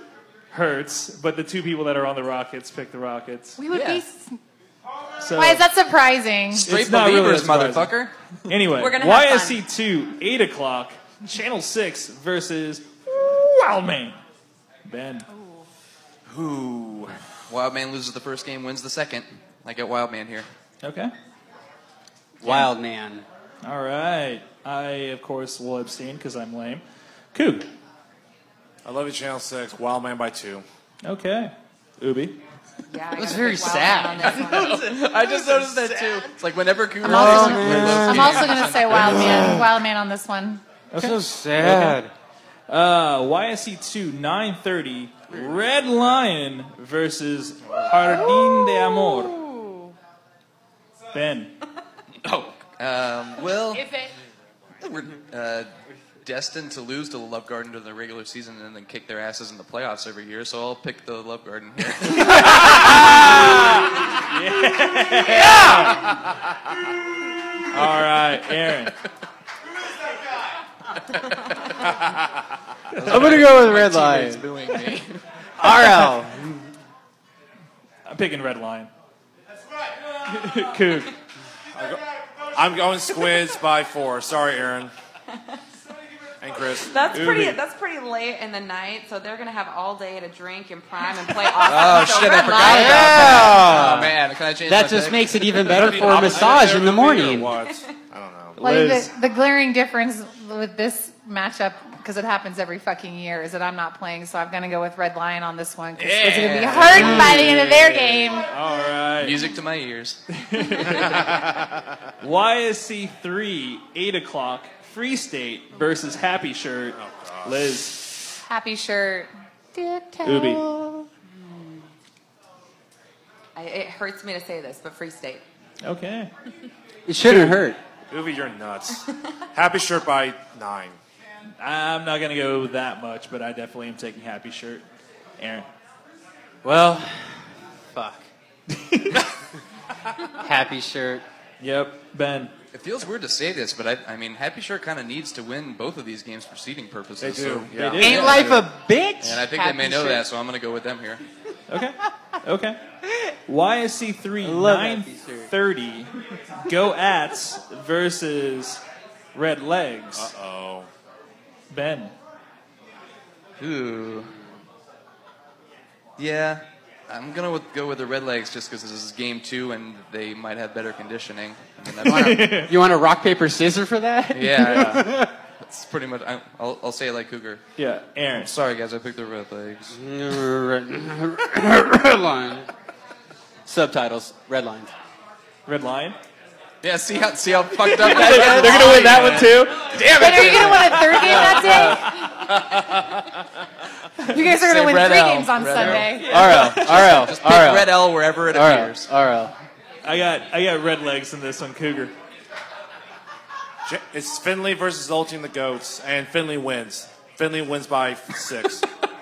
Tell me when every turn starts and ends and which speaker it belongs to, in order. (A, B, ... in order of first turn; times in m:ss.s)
0:00.5-0:03.6 A
0:03.6-0:04.4 B
0:05.2-0:05.6 A
0:05.4-0:06.7 B
0:06.5-0:08.1 C
0:06.6-0:07.9 A
0:08.5-0:14.2 A
0:08.7-0:09.6 D
0:14.8-0:15.3 A
0:15.3-0:15.6 B
0:16.4-0:20.5 C
0:20.8-0:21.1 A
0:22.4-0:23.2 E
0:22.4-0:22.7 A
0:23.6-0:27.7 A
0:28.8-0:30.6 F
0:31.0-0:32.4 A
0:32.9-0:35.0 D
0:33.1-0:34.8 E
0:34.4-0:39.2 C
0:37.0-0:40.6 B
0:37.0-0:38.4 E
0:37.6-0:38.2 A
0:38.9-0:39.6 E
0:40.9-0:42.0 A
0:41.0-0:42.1 E
0:42.7-0:49.4 A
0:48.2-0:49.9 B
0:51.1-0:51.5 A
0:52.2-0:53.9 C
0:53.7-0:54.1 B
0:54.8-0:55.7 C
0:56.2-1:03.4 C
1:02.0-1:06.1 A
1:05.3-1:06.0 E
1:07.7-1:08.9 A
1:12.9-1:15.2 C
1:13.0-1:13.5 A
1:13.0-1:14.4 E
1:15.6-1:16.7 E
1:18.0-1:18.9 A
1:20.2-1:21.1 A
1:21.8-1:22.0 F
1:22.6-1:24.9 F
1:26.4-1:27.0 F
1:26.8-1:33.1 D
1:27.1-1:27.6 A
1:31.6-1:36.6 C
1:31.9-1:33.4 B
1:32.4-1:37.5 E
1:35.6-1:38.6 F
1:38.6-1:39.1 A
1:38.6-1:48.5 B
1:46.0-1:48.1 C
1:47.0-1:47.3 E
1:48.4-1:49.4 A
1:49.2-1:50.2 C
1:50.3-1:51.3 A
1:52.2-1:58.1 A
1:57.0-1:57.5 F
1:58.5-2:01.1 B
2:00.2-2:00.6 A
2:01.3-2:01.8 D
2:03.5-2:05.4 D
2:05.8-2:06.3 A
2:07.1-2:07.8 E
2:07.3-2:07.7 A
2:08.1-2:11.0 F
2:11.6-2:14.8 A
2:15.4-2:15.7 A
2:16.6-2:18.2 E
2:18.7-2:19.2 A
2:20.4-2:21.2 E
2:21.6-2:22.5 A
2:22.7-2:28.5 C
2:27.2-2:28.4 F
2:27.7-2:28.6 A
2:28.0-2:30.2 E
2:29.2-2:31.2 C
2:31.7-2:32.8 A
2:33.5-2:36.1 A
2:34.4-2:35.5 E
2:36.6-2:38.8 A
2:39.3-2:40.3 A
2:40.2-2:40.9 F
2:41.7-2:42.1 A
2:43.6-2:44.4 C
2:46.2-2:52.6 C
2:52.0-2:52.7 A
2:52.0-2:55.3 E
2:54.3-2:57.6 C
2:57.8-2:58.5 A
2:58.4-2:59.9 C
2:59.9-3:02.7 E
3:03.6-3:04.9 E
3:05.6-3:06.2 A
3:06.8-3:12.1 C
3:07.8-3:10.0 A
3:10.0-3:12.2 B
3:14.2-3:16.4 B
3:14.4-3:19.1 C
3:15.9-3:17.3 A
3:16.2-3:19.5 E
3:20.0-3:22.1 A
3:23.8-3:28.8 F